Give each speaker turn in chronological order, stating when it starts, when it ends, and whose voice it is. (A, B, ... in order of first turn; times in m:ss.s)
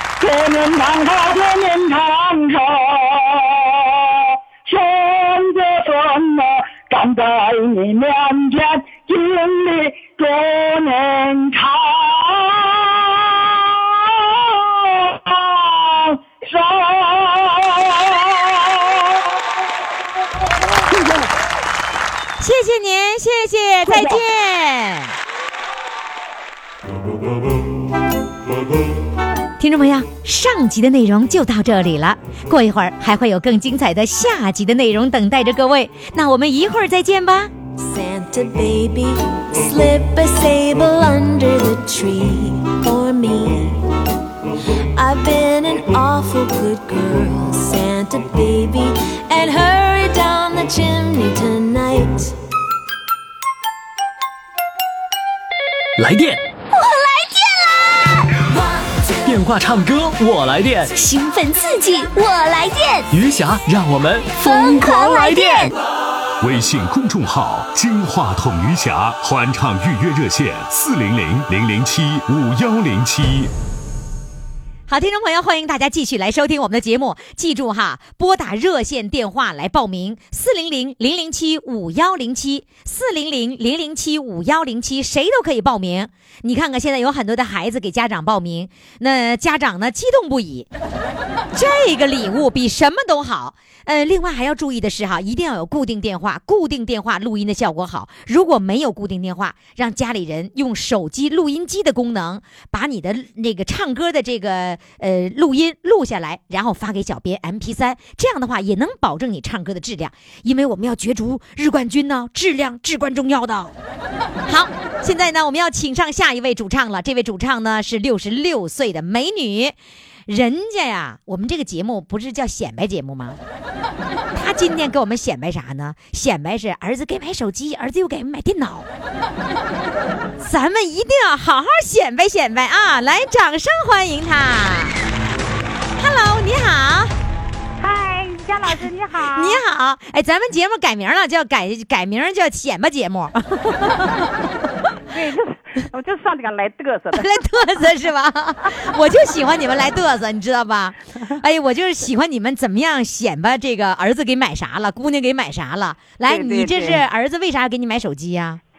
0:00.2-0:19.4 A
0:20.4-0:21.3 A
0:22.4-0:25.1 B
0:23.8-0:24.2 A
0:29.6-0:37.5 B
0:37.8-0:43.9 C
0:44.9-0:52.4 C
0:56.0-0:56.4 D
0:56.7-0:58.1 E
0:59.2-1:00.9 D
1:00.9-1:03.1 E
1:03.1-1:05.7 D
1:04.4-1:05.7 E
1:06.4-1:13.5 F
1:14.9-1:30.7 B
1:31.5-1:53.7 B
1:54.5-1:59.7 B
2:00.3-2:03.4 B
2:04.3-2:08.9 B
2:10.4-2:15.0 B
2:16.0-2:17.1 B
2:17.8-2:19.6 G
2:19.3-2:24.3 B
2:25.1-2:27.3 G
2:27.1-2:38.6 B
2:36.3-2:37.0 G